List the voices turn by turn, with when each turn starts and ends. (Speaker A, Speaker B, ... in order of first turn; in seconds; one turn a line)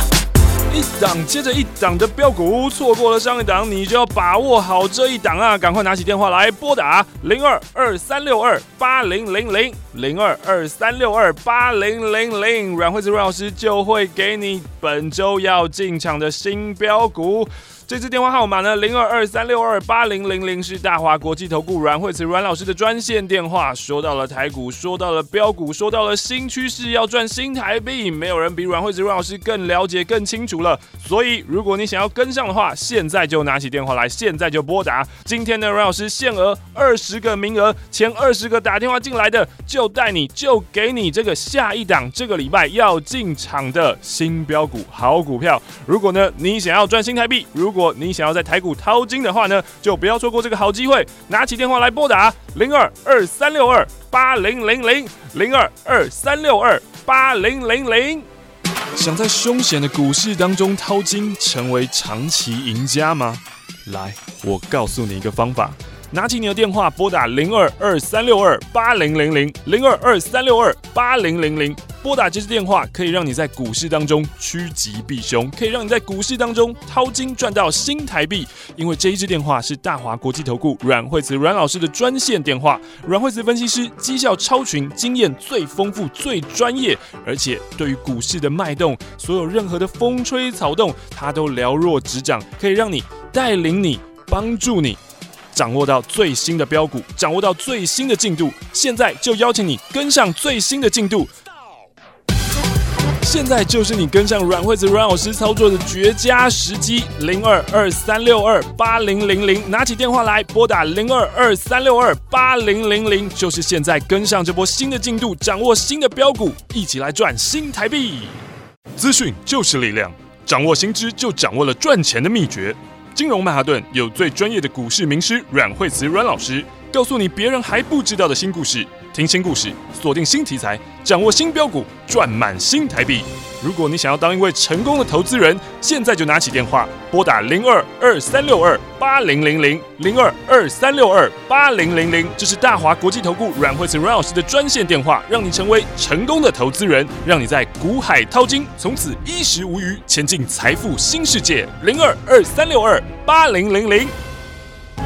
Speaker A: 0.7-58.3
Speaker A: 58.9-95.0
Speaker A: 95.5-101.3
Speaker A: 103.2-118.4
Speaker A: 119.0-154.1